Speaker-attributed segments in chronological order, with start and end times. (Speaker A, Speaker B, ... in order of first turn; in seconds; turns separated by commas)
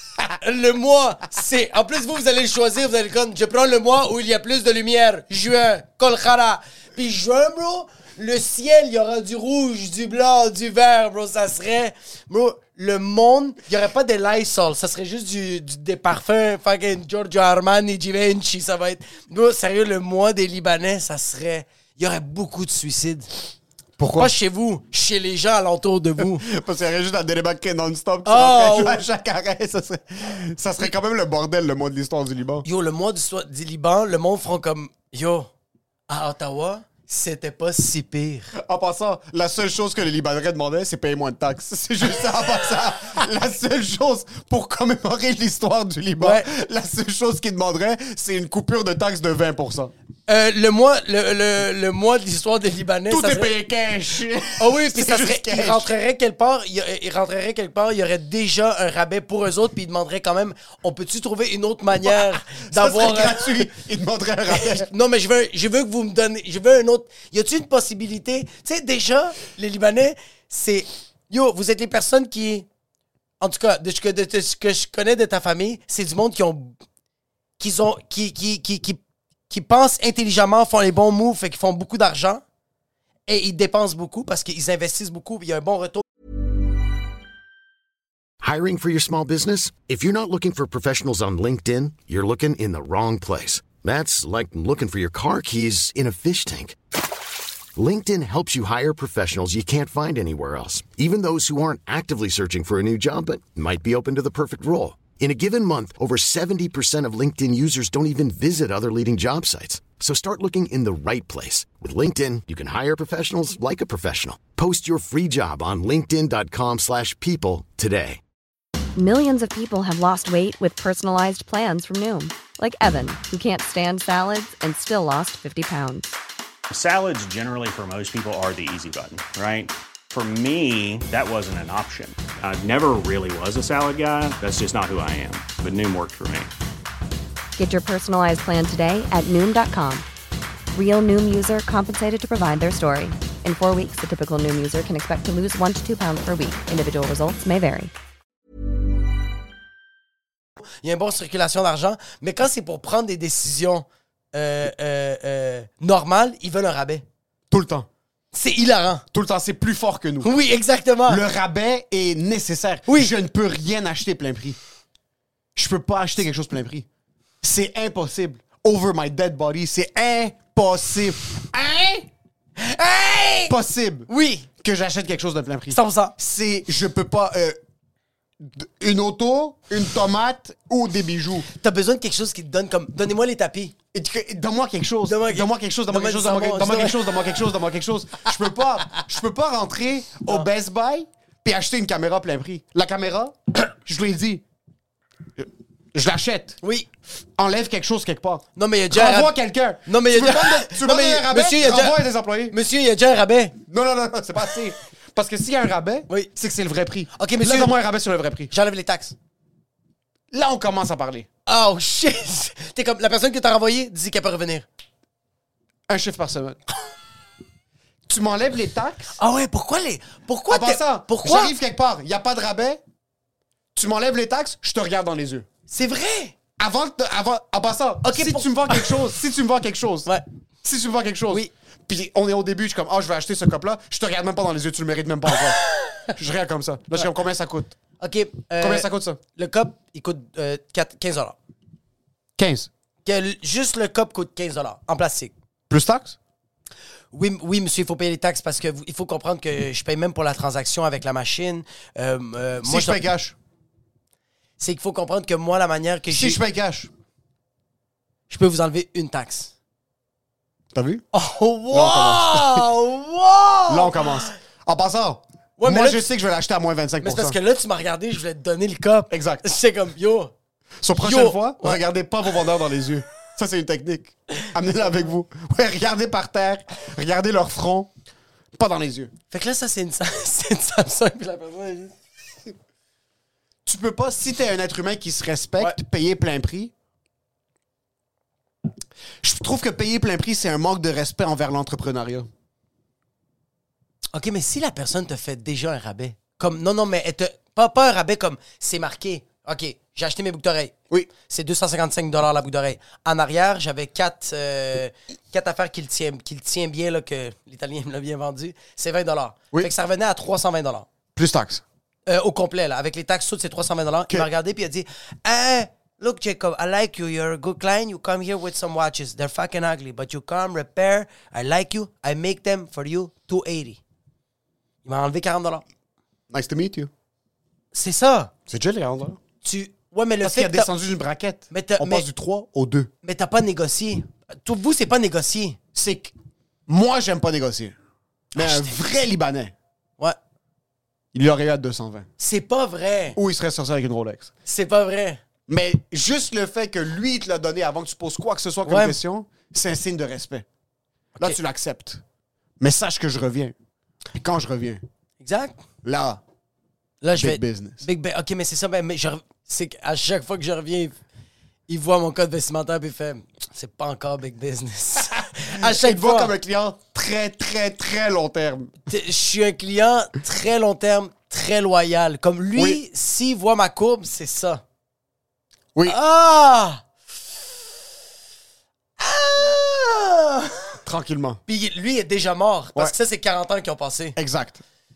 Speaker A: 0.3-23.3, Speaker B: 24.0-24.3, Speaker A: 24.2-26.4, Speaker B: 26.2-32.6, Speaker A: 28.3-29.0, Speaker A: 32.6-35.5, Speaker A: 36.1-38.5, Speaker B: 38.6-49.9, Speaker A: 46.2-46.5, Speaker A: 50.3-53.5, Speaker B: 53.1-55.9, Speaker A: 54.6-63.7, Speaker B: 62.0-64.9, Speaker A: 64.5-72.7, Speaker A: 73.4-76.8, Speaker A: 77.6-82.4, Speaker A: 83.3-86.0, Speaker C: 88.4-96.8, Speaker C: 97.8-118.2, Speaker D: 119.0-126.1, Speaker E: 126.7-136.5, Speaker D: 137.6-140.1, Speaker D: 140.7-147.9, Speaker A: 150.8-157.0, Speaker B: 157.5-157.9, Speaker A: 158.3-159.0, Speaker B: 159.1-160.3, Speaker A: 160.2-161.2, Speaker B: 161.1-164.6, Speaker B: 165.6-166.9, Speaker B: 167.4-172.1, Speaker A: 172.6-173.6, Speaker B: 173.5-177.6, Speaker A: 174.1-174.5, Speaker A: 175.7-176.1, Speaker B: 178.4-181.5, Speaker A: 181.5-183.7, Speaker B: 183.9-194.4, Speaker A: 185.1-187.2, Speaker B: 195.4-196.6, Speaker A: 196.6-196.9, Speaker B: 197.4-202.6, Speaker A: 198.6-202.0, Speaker A: 202.5-203.6, Speaker B: 203.7-208.5, Speaker A: 207.2-207.8, Speaker A: 208.5-209.2, Speaker B: 210.3-211.3, Speaker A: 211.5-214.7, Speaker B: 215.9-216.6, Speaker B: 218.1-219.1, Speaker A: 219.2-221.5, Speaker B: 220.5-222.8, Speaker B: 223.8-225.5, Speaker A: 225.7-226.3, Speaker B: 226.6-230.1, Speaker A: 228.0-229.0, Speaker B: 230.6-237.8, Speaker A: 238.0-241.4, Speaker B: 238.6-239.2, Speaker B: 242.4-242.7, Speaker A: 243.1-245.3, Speaker B: 245.7-246.2, Speaker A: 247.1-253.0, Speaker B: 252.6-253.4, Speaker A: 254.6-256.4, Speaker B: 256.1-256.9, Speaker A: 258.3-259.5, Speaker B: 260.7-261.0, Speaker A: 261.1-264.3, Speaker B: 261.7-262.7, Speaker B: 263.7-267.4, Speaker A: 265.6-266.1, Speaker A: 267.0-270.3, Speaker B: 269.1-269.4, Speaker B: 270.8-277.9, Speaker A: 271.0-271.8, Speaker B: 278.5-279.1, Speaker A: 279.3-281.9, Speaker B: 283.6-286.7, Speaker B: 289.2-292.3, Speaker A: 294.1-310.9, Speaker B: 311.1-311.6, Speaker A: 312.1-323.8, Speaker A: 324.9-325.6, Speaker B: 326.3-326.9, Speaker A: 327.7-328.3, Speaker B: 328.5-329.2, Speaker A: 329.4-330.7, Speaker B: 330.2-332.9, Speaker A: 331.5-332.1, Speaker A: 333.0-335.6, Speaker B: 335.8-336.1, Speaker B: 336.7-337.8, Speaker B: 338.4-339.5, Speaker A: 338.4-338.7, Speaker B: 341.1-342.1, Speaker A: 342.2-343.2, Speaker B: 343.2-344.3, Speaker A: 344.5-345.2, Speaker B: 345.5-350.5, Speaker A: 348.6-349.0, Speaker B: 351.2-352.0, Speaker B: 352.6-353.5, Speaker B: 354.2-354.8, Speaker A: 355.2-355.6, Speaker B: 355.8-356.2, Speaker A: 357.0-361.0, Speaker B: 357.1-357.8, Speaker A: 361.7-366.3, Speaker B: 365.5-368.7, Speaker A: 368.9-374.6, Speaker A: 375.9-376.8, Speaker A: 379.0-380.7, Speaker B: 380.9-381.4, Speaker A: 381.5-384.2, Speaker B: 384.2-384.6